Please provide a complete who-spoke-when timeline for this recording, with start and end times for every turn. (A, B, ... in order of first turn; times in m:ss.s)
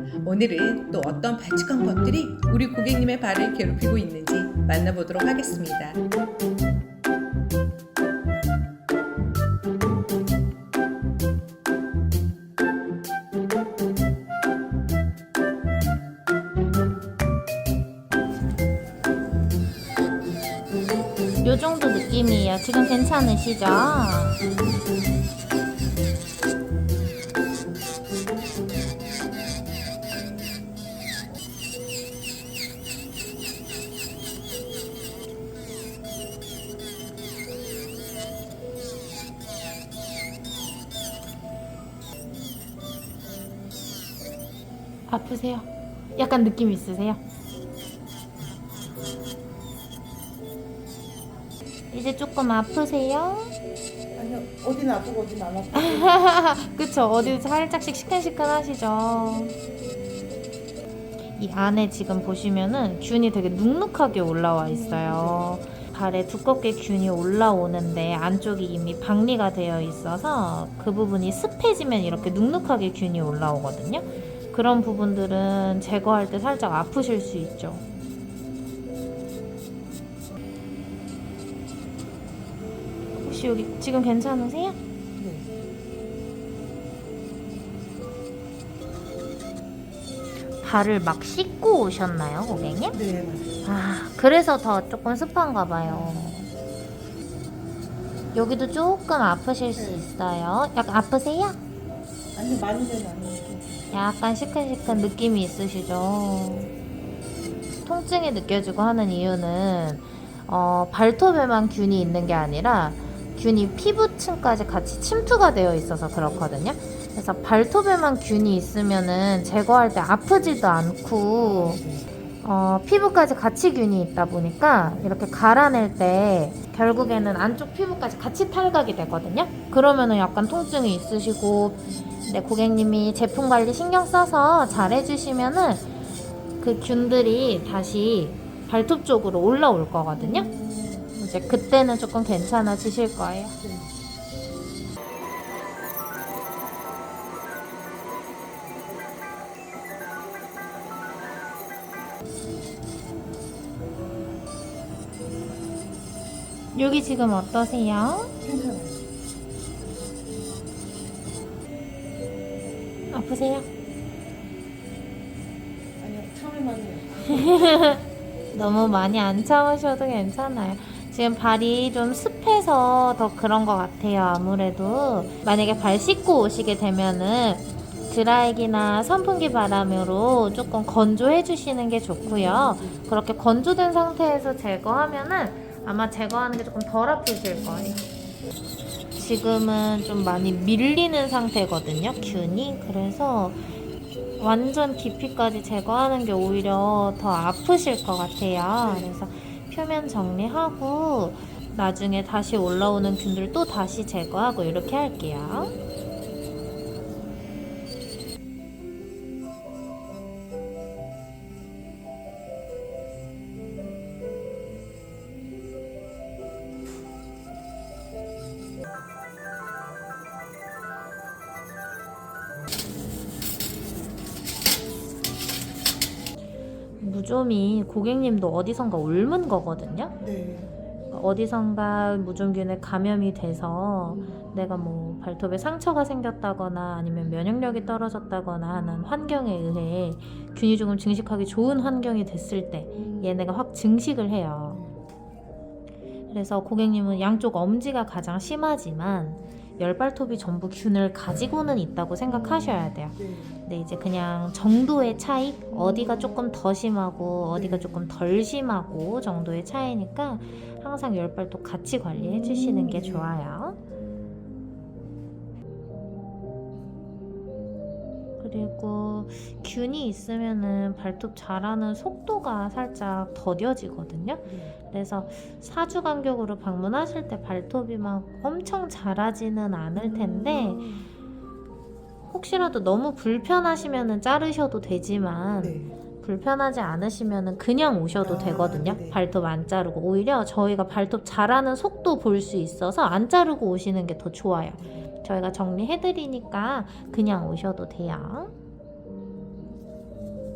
0:00.2-0:06.0 A
0:21.4-0:24.4 B
0:45.1-0:47.2 B
0:51.9-0:53.5 B
0:54.1-0:56.2 C
0:55.8-0:59.5 B
1:01.4-1:17.8 B
1:04.6-1:05.5 C
1:23.1-1:24.8 B
1:25.2-1:25.5 C
1:30.6-1:33.0 B
1:32.9-1:33.6 C
1:33.6-1:36.5 B
1:35.8-1:36.4 C
1:38.3-1:41.6 B
1:39.8-1:40.0 C
1:42.3-1:43.8 C
1:43.9-1:46.7 B
1:47.8-2:01.8 B
2:01.4-2:02.1 C
2:02.4-2:15.9 B
2:16.6-2:20.5 B
2:20.1-2:21.1 C
2:21.1-2:23.6 B
2:23.6-2:23.9 C
2:36.7-2:38.3 B
2:38.4-2:39.0 C
2:43.1-2:43.6 B
2:46.0-2:47.8 C
2:47.2-3:08.0 B
3:02.2-3:03.0 C
3:07.7-3:08.1 C
3:09.1-3:13.7 B
3:12.2-3:12.6 C
3:14.4-3:25.7 B
3:18.8-3:19.1 C
3:47.0-3:50.1 B
3:50.2-3:50.7 C
3:51.1-4:04.8 B
4:03.0-4:03.3 C
4:04.7-4:05.0 C
4:06.3-4:23.8 B
4:13.1-4:13.6 C
4:15.7-4:16.2 C
4:17.5-4:18.0 C
4:22.1-4:23.3 C
4:28.4-4:41.0 B
4:34.4-4:34.8 C
4:40.0-4:41.1 C
4:42.2-4:58.5 B
4:45.6-4:46.0 C
4:48.2-4:49.2 C
4:54.8-4:55.1 C